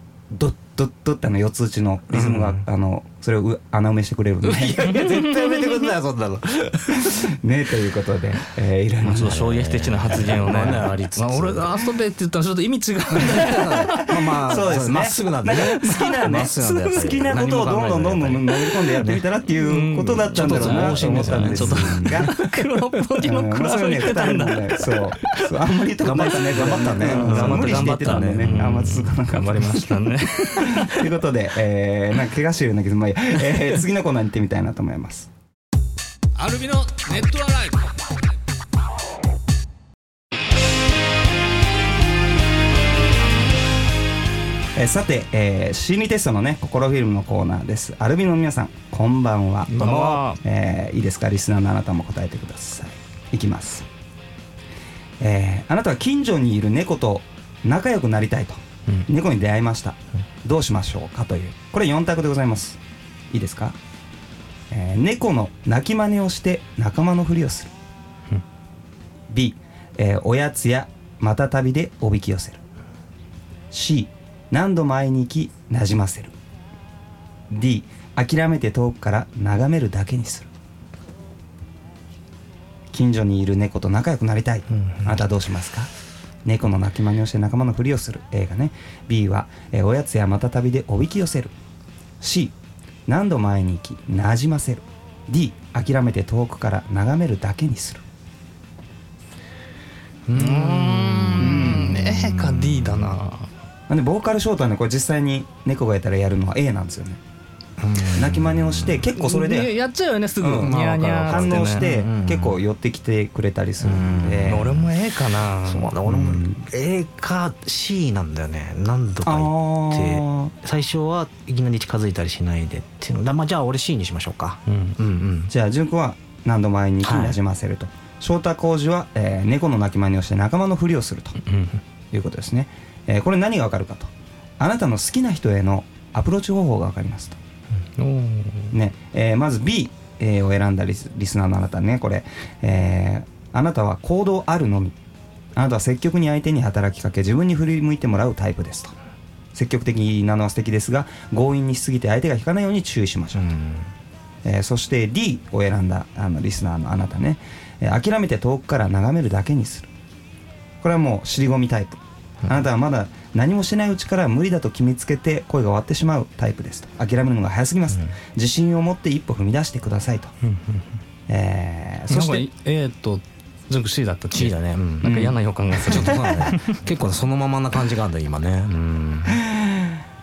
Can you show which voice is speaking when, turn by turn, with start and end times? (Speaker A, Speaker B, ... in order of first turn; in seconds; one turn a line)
Speaker A: 0.3-5.0
Speaker B: 2.1-2.6
Speaker B: 4.4-7.3
Speaker C: 4.8-5.9
Speaker A: 7.2-9.4
Speaker B: 9.0-11.7
Speaker C: 9.0-14.2
Speaker A: 10.1-10.8
Speaker B: 13.2-19.2
Speaker A: 14.4-22.4
Speaker C: 15.8-16.1
Speaker C: 19.5-25.5
Speaker B: 20.4-22.3
Speaker A: 23.2-35.3
Speaker B: 26.0-28.8
Speaker C: 26.9-31.1
Speaker C: 36.4-37.9
Speaker A: 44.8-53.9
Speaker C: 49.7-50.4
Speaker A: 55.2-62.8
Speaker A: 63.3-63.8
Speaker A: 64.7-67.7
Speaker A: 69.3-72.6
Speaker A: 73.7-76.3
Speaker A: 77.5-80.5
Speaker A: 82.9-85.9
Speaker B: 84.7-85.2
Speaker A: 86.5-91.5
Speaker A: 92.2-92.5
Speaker A: 93.1-98.0
Speaker B: 100.3-103.1
Speaker C: 100.3-103.5
Speaker A: 101.4-102.1
Speaker A: 103.9-107.2
Speaker B: 107.8-109.0
Speaker A: 108.2-109.7
Speaker C: 109.1-111.8
Speaker A: 110.4-114.8
Speaker B: 110.6-112.6
Speaker B: 113.8-114.9
Speaker C: 114.5-116.0
Speaker B: 115.6-125.5
Speaker A: 116.1-116.6
Speaker A: 119.2-120.5
Speaker C: 124.7-125.0
Speaker A: 125.5-131.4
Speaker B: 127.0-127.4
Speaker C: 131.5-131.8
Speaker A: 132.1-137.4
Speaker C: 138.0-138.8
Speaker A: 138.7-145.0
Speaker A: 145.6-148.9
Speaker A: 149.6-153.5
Speaker B: 153.3-153.9
Speaker A: 154.4-159.9
Speaker A: 160.8-170.3
Speaker C: 170.4-170.8
Speaker A: 171.3-172.5
Speaker C: 172.1-176.8
Speaker B: 174.3-175.3
Speaker B: 175.9-179.4
Speaker A: 179.3-180.0